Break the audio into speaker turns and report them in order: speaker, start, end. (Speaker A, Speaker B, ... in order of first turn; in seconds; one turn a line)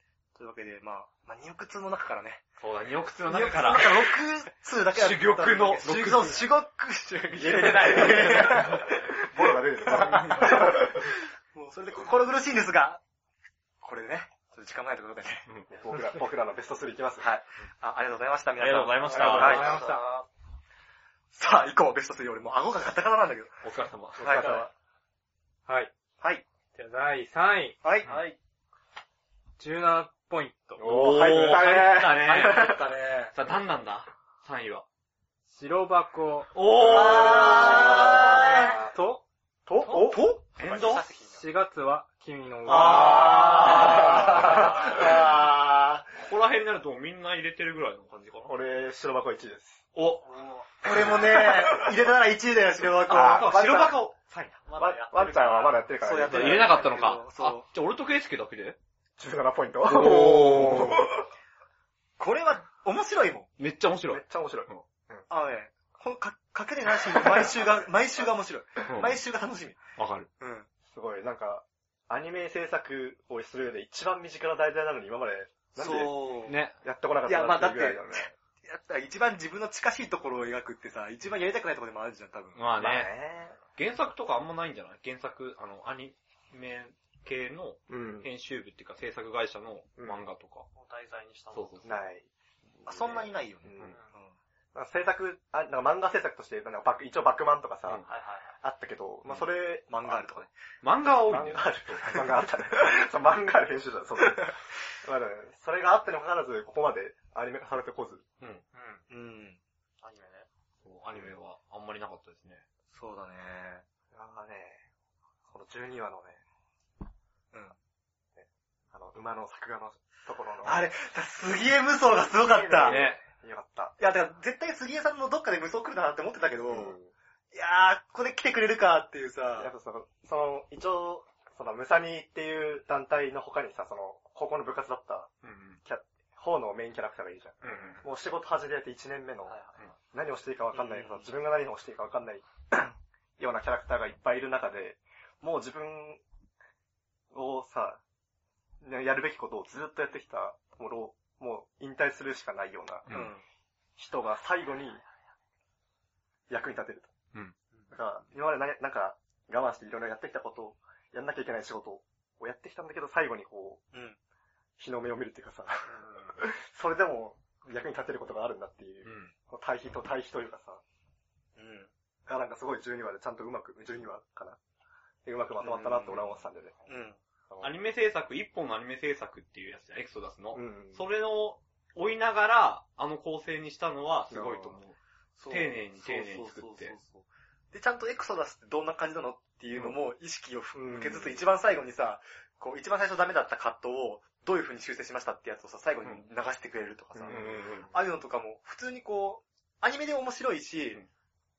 Speaker A: 0.3-2.4
Speaker B: 2.6-4.2
Speaker A: 3.2-13.0
Speaker B: 4.9-6.5
Speaker C: 7.4-11.0
Speaker B: 7.5-8.6
Speaker A: 13.8-15.5
Speaker C: 15.7-17.3
Speaker A: 17.2-19.8
Speaker B: 18.6-19.9
Speaker D: 19.0-20.2
Speaker E: 19.1-20.1
Speaker A: 21.3-23.5
Speaker B: 23.6-24.5
Speaker A: 24.2-24.7
Speaker C: 24.2-24.7
Speaker E: 25.7-25.9
Speaker E: 26.7-27.8
Speaker A: 27.8-28.1
Speaker D: 28.1-28.4
Speaker E: 29.6-31.1
Speaker C: 30.8-32.8
Speaker B: 30.8-32.8
Speaker A: 32.3-33.3
Speaker B: 33.3-34.8
Speaker E: 35.5-36.6
Speaker B: 36.5-38.7
Speaker A: 36.8-38.8
Speaker E: 38.1-39.2
Speaker C: 38.5-38.9
Speaker C: 39.7-40.2
Speaker A: 39.8-41.4
Speaker B: 40.5-41.1
Speaker E: 41.2-44.7
Speaker B: 42.6-44.8
Speaker A: 42.6-46.0
Speaker B: 46.1-48.5
Speaker C: 48.5-49.8
Speaker B: 49.9-50.2
Speaker D: 50.2-50.8
Speaker A: 50.8-53.9
Speaker C: 51.2-51.7
Speaker B: 53.0-54.6
Speaker C: 53.1-54.0
Speaker D: 54.6-55.9
Speaker C: 54.8-56.9
Speaker A: 56.0-57.6
Speaker B: 56.2-58.8
Speaker C: 59.2-61.2
Speaker B: 59.8-61.1
Speaker A: 62.2-63.5
Speaker B: 63.6-64.8
Speaker C: 64.1-65.2
Speaker A: 65.3-69.8
Speaker B: 68.9-69.2
Speaker B: 70.0-70.3
Speaker A: 70.4-70.7
Speaker C: 70.9-78.3
Speaker A: 75.8-76.5
Speaker B: 75.9-76.8
Speaker A: 77.2-82.6
Speaker B: 82.5-83.1
Speaker C: 82.8-83.6
Speaker B: 83.8-90.7
Speaker C: 87.9-88.3
Speaker C: 90.0-90.2
Speaker D: 90.7-92.0
Speaker B: 91.5-92.0
Speaker C: 91.8-92.3
Speaker A: 92.8-94.3
Speaker C: 93.6-94.0
Speaker D: 93.8-94.1
Speaker C: 94.7-98.0
Speaker D: 98.1-98.5
Speaker C: 98.6-100.4
Speaker A: 99.9-100.5
Speaker B: 100.8-102.2
Speaker C: 101.3-108.2
Speaker D: 108.7-109.0
Speaker A: 109.1-109.6
Speaker D: 110.0-110.5
Speaker B: 110.8-112.6
Speaker A: 112.9-113.8
Speaker C: 114.1-114.8
Speaker C: 115.5-116.4
Speaker C: 118.3-120.9
Speaker A: 120.6-123.0
Speaker C: 122.4-124.0
Speaker B: 122.8-123.2
Speaker A: 124.0-127.0
Speaker C: 126.7-127.1
Speaker A: 127.5-129.7
Speaker C: 129.6-135.3
Speaker B: 135.4-135.8
Speaker C: 135.8-146.2
Speaker B: 137.6-138.0
Speaker D: 139.5-139.8
Speaker A: 140.7-141.3
Speaker C: 147.3-148.0
Speaker C: 148.8-153.1
Speaker B: 153.1-153.3
Speaker A: 153.1-153.4
Speaker C: 154.0-155.0
Speaker C: 156.5-157.1
Speaker C: 157.9-163.8
Speaker A: 163.9-164.2
Speaker C: 164.8-170.8
Speaker D: 165.9-166.3
Speaker B: 169.0-169.3
Speaker A: 171.6-171.9
Speaker C: 172.2-174.6
Speaker C: 175.2-176.8
Speaker A: 175.6-176.3
Speaker A: 176.9-177.2
Speaker C: 177.5-177.7
Speaker B: 177.6-185.0
Speaker C: 180.5-181.0
Speaker C: 184.3-184.8
Speaker A: 185.4-201.0
Speaker B: 185.5-186.9
Speaker C: 190.7-191.4
Speaker C: 197.2-197.5
Speaker B: 197.3-197.9